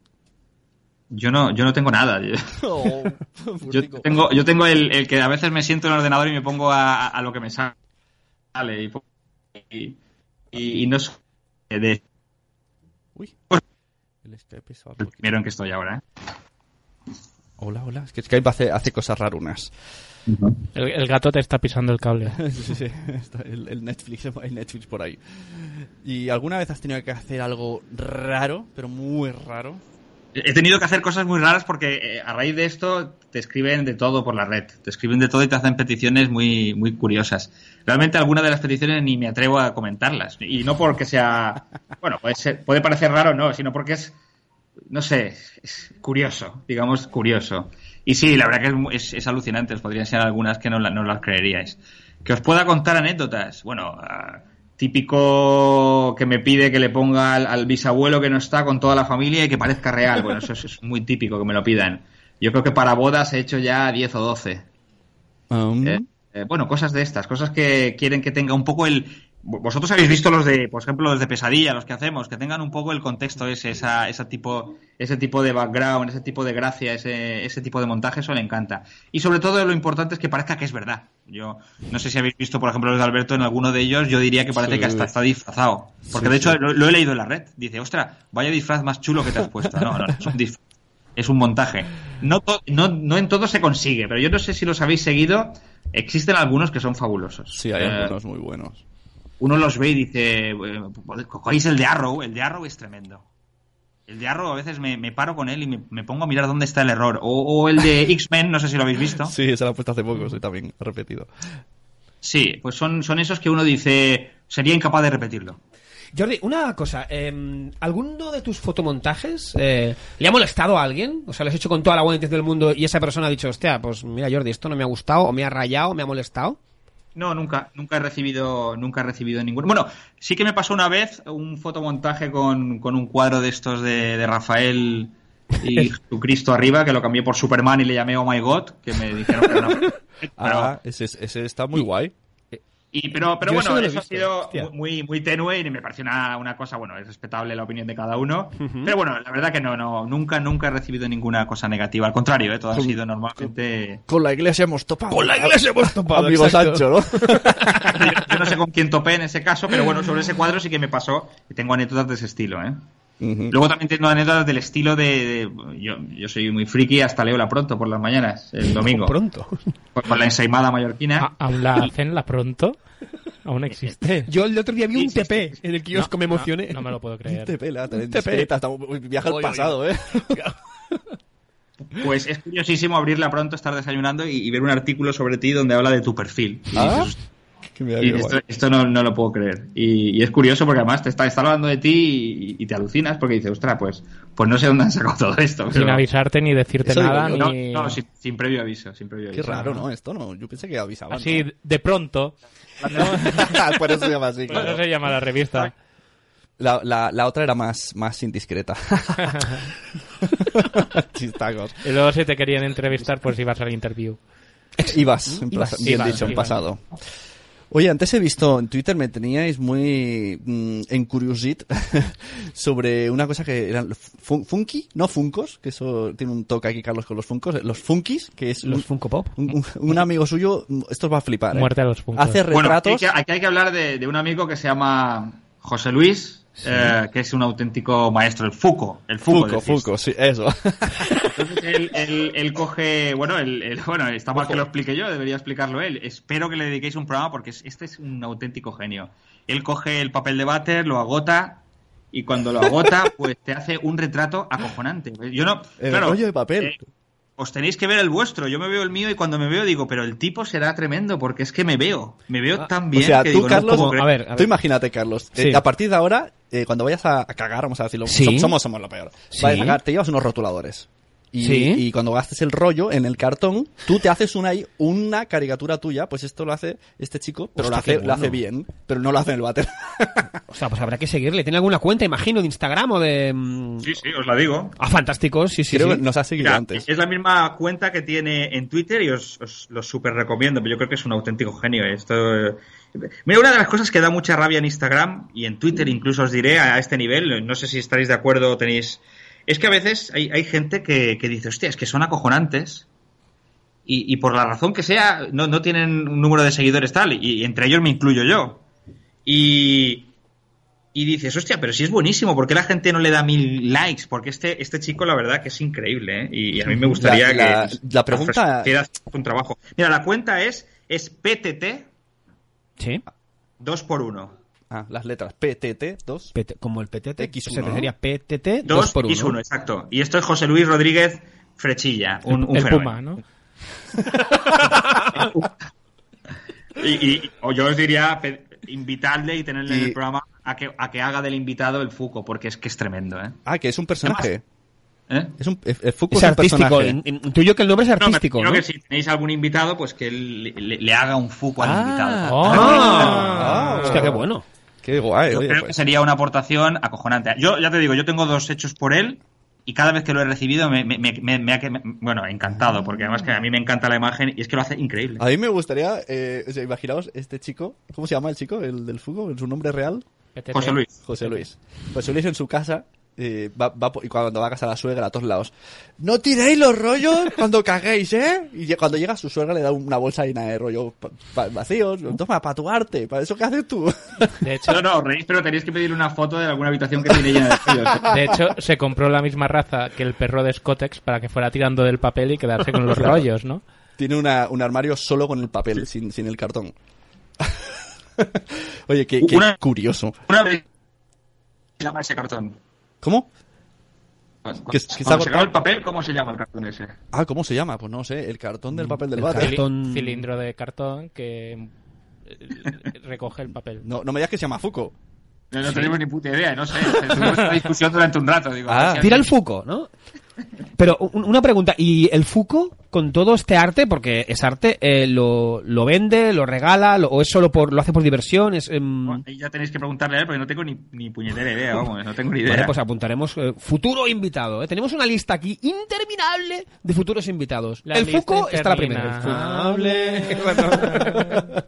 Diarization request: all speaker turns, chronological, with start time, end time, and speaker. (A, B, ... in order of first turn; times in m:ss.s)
0:01.1-0:02.5 A
0:02.6-0:04.2 B
0:03.7-0:07.8 A
0:08.5-0:09.0 A
0:09.6-0:10.0 A
0:10.5-0:11.2 A
0:11.7-0:12.0 A
0:14.2-0:15.3 B
0:15.0-0:16.0 A
0:17.6-0:19.7 B
0:20.3-0:20.6 A
0:20.8-0:22.4 C
0:22.3-0:29.8 B
0:30.4-0:44.2 A
0:44.9-1:04.7 A
1:05.5-1:06.0 B
1:05.8-1:30.6 A
1:24.6-1:25.1 B
1:26.1-1:26.6 B
1:29.8-1:30.1 B
1:31.2-1:38.1 A
1:37.6-1:38.8 B
1:39.4-1:43.2 A
1:44.1-1:49.3 A
1:49.2-1:51.3 B
1:52.2-1:55.6 A
1:56.1-2:06.6 D
2:07.2-2:20.7 A
2:20.4-2:22.1 B
2:22.9-2:34.0 A
2:23.4-2:24.7 D
2:28.6-2:29.0 D
2:32.7-2:33.5 B
2:34.1-2:38.0 B
2:35.1-2:38.0 D
2:37.9-2:42.8 A
2:43.2-2:43.6 B
2:43.5-2:49.2 A
2:48.7-2:49.7 D
2:50.0-2:51.9 A
2:51.2-2:52.8 C
2:53.5-2:54.3 C
2:54.3-2:56.8 D
2:54.9-2:55.6 A
2:55.9-2:57.6 C
2:57.3-3:00.4 B
2:58.1-2:58.5 D
2:59.2-2:59.8 D
3:01.9-3:07.2 A
3:06.7-3:07.1 B
3:07.7-3:08.4 B
3:08.0-3:16.0 A
3:15.7-3:18.0 C
3:16.8-3:17.5 B
3:17.4-3:19.6 A
3:19.3-3:21.5 B
3:21.1-3:22.4 C
3:22.8-3:23.1 A
3:23.0-3:23.6 C
3:23.0-3:24.8 B
3:24.5-3:25.7 C
3:26.6-3:29.6 B
3:30.4-3:31.8 B
3:31.8-3:34.2 C
3:34.8-3:36.4 D
3:34.8-3:36.8 B
3:35.8-3:36.5 C
3:37.7-3:53.1 B
3:48.6-3:49.5 D
3:51.5-3:52.4 C
3:52.5-3:59.9 A
3:59.3-4:01.2 B
4:01.3-4:16.8 A
4:04.4-4:04.6 B
4:15.8-4:16.8 B
4:17.4-4:24.1 A
4:22.9-4:40.3 B
4:23.6-4:24.5 D
4:25.4-4:25.6 D
4:28.1-4:28.5 D
4:29.3-4:29.8 D
4:31.4-4:31.8 D
4:37.6-4:38.4 D
4:40.5-4:43.9 D
4:43.8-4:44.8 A
4:44.8-4:46.0 D
4:45.7-4:46.9 B
4:46.4-5:02.9 A
5:03.9-5:08.6 A
5:09.3-5:10.1 A
5:10.9-5:21.9 A
5:16.9-5:18.8 B
5:22.8-5:23.0 D
5:23.6-5:24.4 A
5:24.7-5:26.3 B
5:26.4-5:29.4 D
5:27.2-5:27.9 B
5:28.7-5:33.0 A
5:32.3-5:33.2 C
5:35.1-5:35.5 A
5:36.8-5:43.4 A
5:39.7-5:40.0 B
5:43.5-5:44.4 B
5:45.4-5:47.0 B
5:46.1-5:48.6 D
5:48.0-5:53.3 A
5:51.6-5:54.3 B
5:52.2-5:54.1 C
5:52.5-5:54.4 D
5:54.8-5:55.8 B
5:55.3-6:05.2 A
6:02.6-6:03.3 B
6:05.2-6:10.0 B
6:10.4-6:11.4 C
6:10.5-6:10.9 A
6:11.1-6:24.3 B
6:24.4-6:24.8 C
6:24.7-6:28.1 A
6:28.1-6:33.6 C
6:32.9-6:33.3 B
6:34.0-6:36.7 B
6:37.4-6:40.2 B
6:39.2-6:39.6 A
6:40.3-6:40.6 A
6:41.8-6:42.6 A
6:43.0-6:43.3 B
6:44.4-6:47.0 A
6:44.7-6:45.5 B
6:47.1-6:49.6 B
6:48.8-6:50.2 D
6:49.4-6:51.7 C
6:52.3-6:53.8 C
6:53.8-6:55.0 B
6:55.5-6:59.3 A
6:58.7-6:59.1 B
6:59.0-6:59.9 D
7:00.8-7:09.2 D
7:09.1-7:12.7 A
7:12.5-7:21.4 D
7:17.9-7:21.5 C
7:20.3-7:21.5 B